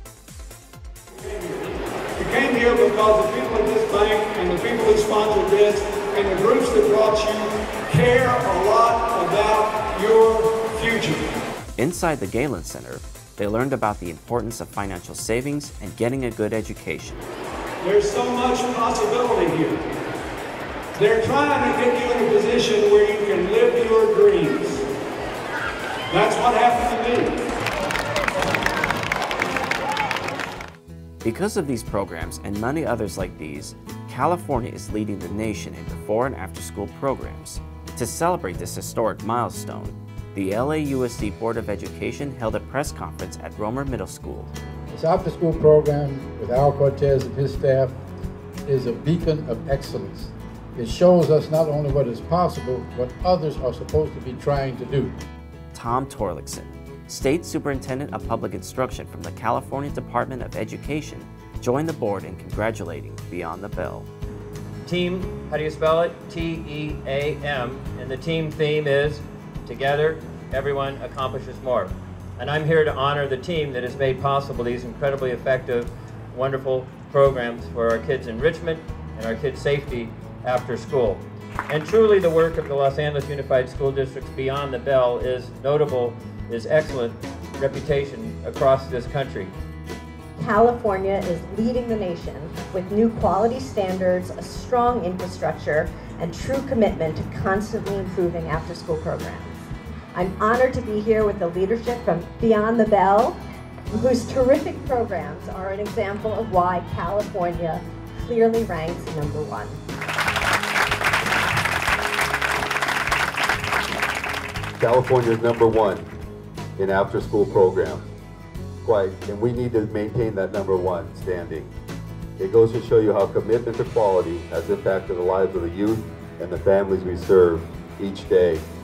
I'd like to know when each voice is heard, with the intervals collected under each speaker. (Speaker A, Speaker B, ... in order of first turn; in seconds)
Speaker A: 1.2-1.6, 2.2-11.2, 17.8-19.8, 20.9-24.8, 26.1-27.3
Speaker B: 11.8-17.2, 31.2-44.5, 55.7-64.1
Speaker C: 44.9-48.0, 48.7-55.1
Speaker D: 64.9-89.5
Speaker E: 90.4-99.6, 100.1-103.4, 103.9-109.8
Speaker F: 114.8-116.1, 116.8-118.1, 118.8-121.7, 122.4-128.6